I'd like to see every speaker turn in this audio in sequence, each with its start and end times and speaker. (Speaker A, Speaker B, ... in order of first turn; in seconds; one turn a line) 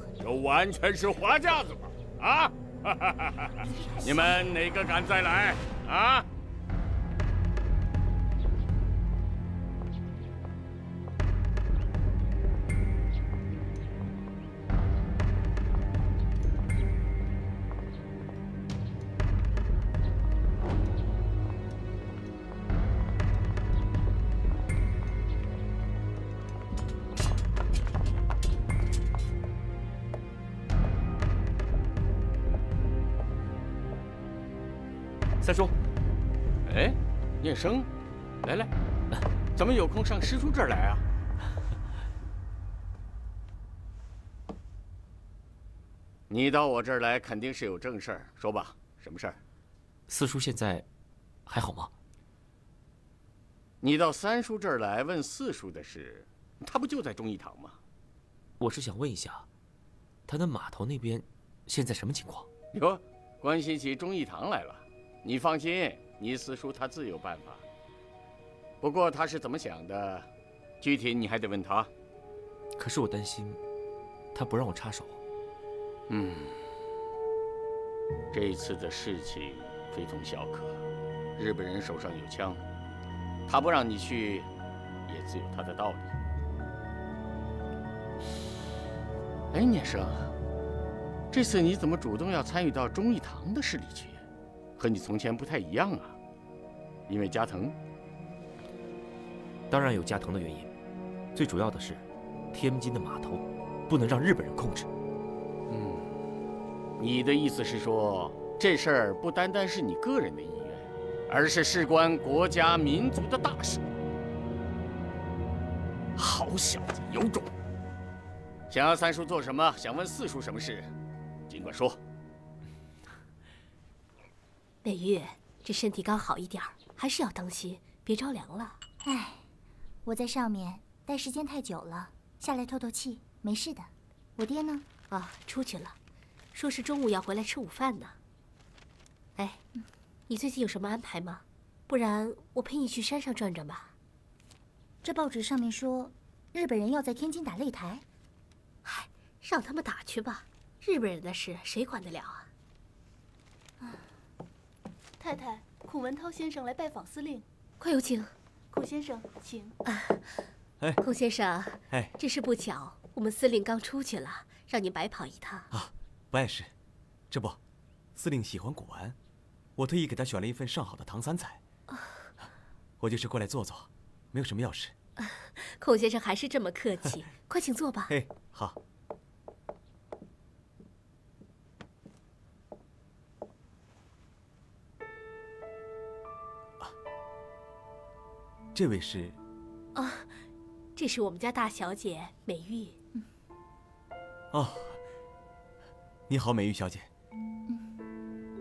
Speaker A: 0.2-6.2
Speaker B: 35.4-35.7
Speaker A: 36.6-37.9
Speaker A: 38.4-38.7
Speaker A: 39.5-41.0
Speaker A: 46.3-49.4
Speaker B: 50.1-50.9
Speaker B: 51.5-51.9
Speaker A: 53.8-57.8
Speaker B: 58.6-59.5
Speaker B: 60.3-62.5
Speaker A: 62.7-67.6
Speaker A: 68.8-70.3
Speaker A: 70.8-71.9
Speaker B: 72.8-73.6
Speaker B: 74.3-75.2
Speaker A: 76.1-76.6
Speaker A: 78.3-80.8
Speaker A: 81.3-82.6
Speaker A: 83.5-84.5
Speaker A: 85.1-86.1
Speaker A: 89.5-90.3
Speaker A: 91.3-94.2
Speaker A: 94.8-96.2
Speaker A: 97.1-97.8
Speaker B: 99.7-100.7
Speaker B: 101.3-104.9
Speaker A: 105.7-106.0
Speaker A: 107.0-113.8
Speaker A: 116.2-117.5
Speaker A: 118.7-120.9
Speaker A: 121.5-122.0
Speaker C: 124.8-128.8
Speaker D: 129.0-129.4
Speaker D: 130.0-135.0
Speaker C: 135.0-135.9
Speaker C: 136.5-138.2
Speaker C: 139.3-139.6
Speaker C: 140.3-143.9
Speaker D: 145.0-148.0
Speaker C: 148.8-152.5
Speaker E: 155.2-157.4
Speaker C: 157.8-158.3
Speaker E: 158.7-159.7
Speaker C: 159.8-165.7
Speaker F: 165.7-166.7
Speaker F: 167.3-167.6
Speaker F: 168.1-169.2
Speaker F: 169.8-171.6
Speaker F: 173.0-174.9
Speaker C: 175.2-178.2
Speaker F: 178.1-178.8
Speaker F: 188.7-189.4
Speaker C: 189.9-190.4
Speaker C: 190.9-193.0
Speaker F: 194.5-195.0
Speaker F: 196.3-197.1
Speaker D: 197.7-197.9